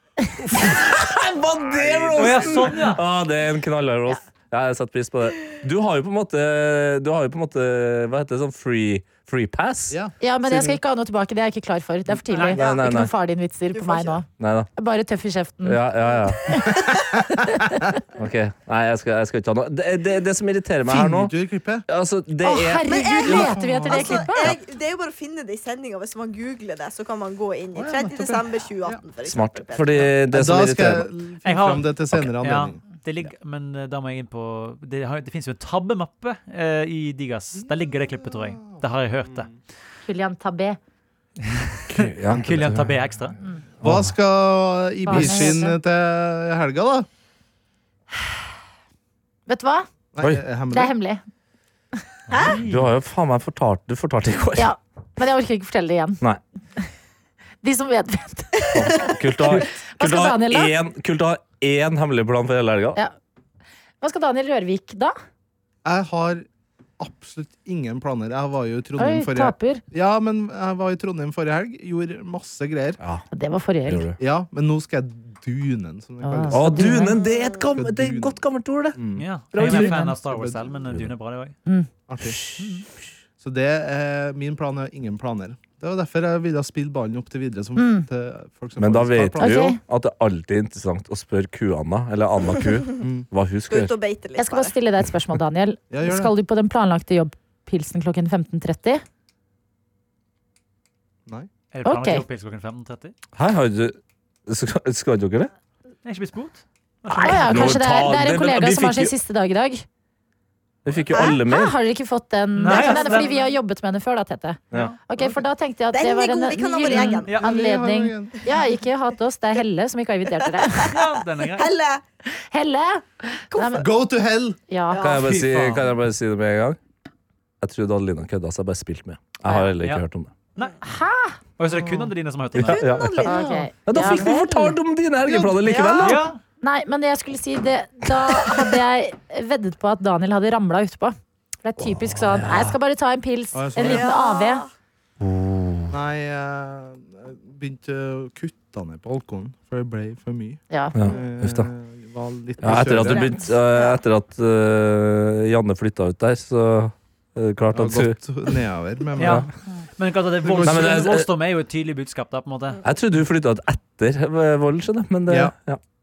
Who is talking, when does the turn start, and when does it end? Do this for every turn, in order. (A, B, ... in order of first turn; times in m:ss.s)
0:00.5-0:10.0 A
0:01.8-0:02.7 B
0:02.2-0:03.0 C
0:09.9-0:10.8 B
0:10.2-0:14.2 D
0:12.3-0:12.8 E
0:12.5-0:13.1 A
0:13.7-0:14.2 E
0:14.4-0:14.7 A
0:14.8-0:15.8 D
0:15.6-0:16.6 A
0:16.5-0:17.8 D
0:18.2-0:21.3 A
0:20.9-0:21.8 B
0:21.9-0:23.5 A
0:22.4-0:24.5 D
0:22.8-0:30.1 E
0:23.3-0:24.3 B
0:27.7-0:29.0 B
0:29.2-0:31.1 A
0:30.3-0:32.8 B
0:31.4-0:39.5 C
0:37.6-0:38.8 B
0:40.1-0:40.8 D
0:41.4-0:43.4 C
0:41.9-0:43.0 A
0:43.8-0:47.1 B
0:43.8-0:44.1 A
0:45.0-0:45.8 D
0:45.1-0:45.5 A
0:49.5-0:49.9 D
0:50.1-0:50.9 B
0:50.7-0:51.2 D
0:52.3-0:52.6 E
0:52.4-0:52.9 C
0:52.5-0:54.7 A
0:54.6-0:56.2 D
0:57.6-1:00.7 D
0:58.7-1:03.0 A
1:04.0-1:05.2 D
1:05.8-1:06.4 B
1:07.0-1:13.0 B
1:09.0-1:09.8 D
1:13.3-1:14.1 D
1:13.9-1:14.2 A
1:14.2-1:17.0 B
1:16.2-1:17.2 D
1:16.5-1:20.1 A
1:17.2-1:17.7 E
1:17.7-1:18.4 B
1:19.0-1:20.8 B
1:19.2-1:21.6 C
1:19.6-1:20.2 D
1:22.1-1:22.4 B
1:22.3-1:22.6 A
1:22.6-1:22.8 C
1:23.4-1:29.6 B
1:27.8-1:28.1 D
1:28.8-1:34.0 A
1:29.4-1:29.8 D
1:33.0-1:33.3 B
1:33.7-1:34.8 E
1:34.4-1:39.0 D
1:35.9-1:36.3 B
1:41.7-1:43.2 C
1:41.8-1:42.2 D
1:43.4-1:45.5 A
1:46.0-1:47.8 C
1:47.1-1:49.8 D
1:47.1-1:49.1 A
1:50.8-1:51.8 A
1:51.1-1:51.4 E
1:51.2-2:00.9 D
1:52.6-1:53.3 C
1:52.7-1:53.5 E
1:54.7-1:55.0 C
1:55.9-1:57.4 E
1:57.3-1:58.4 B
2:00.6-2:02.0 E
2:00.8-2:01.7 C
2:02.3-2:03.9 D
2:03.5-2:03.9 E
2:03.8-2:04.6 B
2:04.7-2:05.0 D
2:04.9-2:05.4 E
2:05.0-2:06.8 A
2:05.2-2:05.9 C
2:07.6-2:10.3 A
2:09.4-2:09.7 D
2:10.8-2:12.1 D
2:11.6-2:12.8 C
2:12.6-2:13.3 A
2:12.6-2:13.4 E
2:13.2-2:14.8 D
2:13.8-2:16.2 A
2:15.2-2:15.8 B
2:15.6-2:16.2 E
2:16.0-2:16.4 C
2:16.6-2:24.6 D
2:21.8-2:22.8 A
2:23.5-2:24.1 B
2:23.8-2:24.7 E
2:25.2-2:25.9 A
2:25.9-2:33.4 B
2:30.7-2:31.0 D
2:31.0-2:31.7 A
2:32.6-2:38.2 A
2:33.0-2:34.0 E
2:37.7-2:39.5 B
2:39.2-2:39.5 C
2:39.2-2:39.5 A
2:40.0-2:42.8 C
2:40.4-2:41.1 B
2:40.6-2:41.3 A
2:42.8-2:45.8 A
2:45.3-2:45.5 B